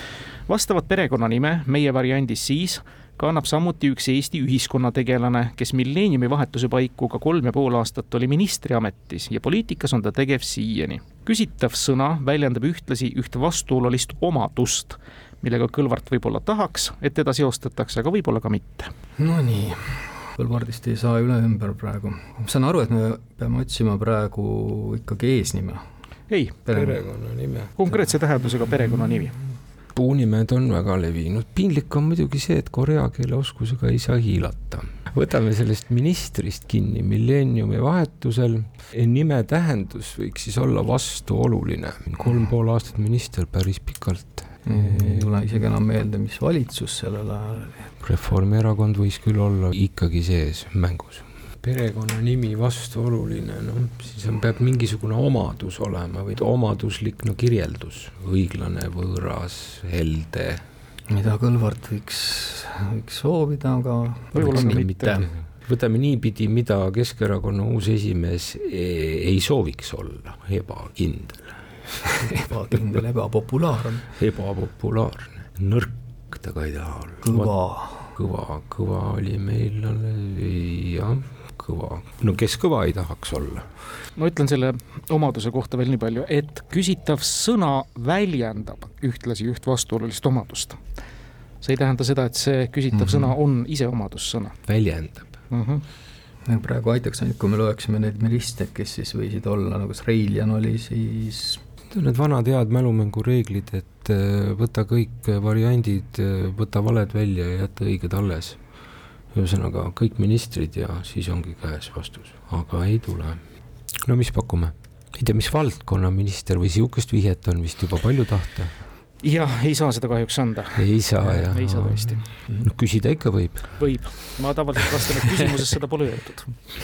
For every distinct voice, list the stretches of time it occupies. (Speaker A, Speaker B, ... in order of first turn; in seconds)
Speaker A: 0.5-18.9, 26.3-26.6, 27.8-29.4, 64.3-65.2, 84.2-90.8, 91.6-94.6, 95.5-95.8, 119.2-122.2, 123.8-126.6
Speaker B: 19.2-25.8, 26.7-27.0, 44.7-47.9, 61.1-65.3, 72.3-74.1, 77.2-78.1, 92.9-93.3, 96.5-101.6
Speaker C: 26.7-27.8, 29.9-45.3, 48.0-60.6, 64.3-71.8, 74.2-77.5, 78.2-83.7, 94.7-95.4, 101.9-108.6, 109.3-113.4, 114.0-118.7, 120.8-123.8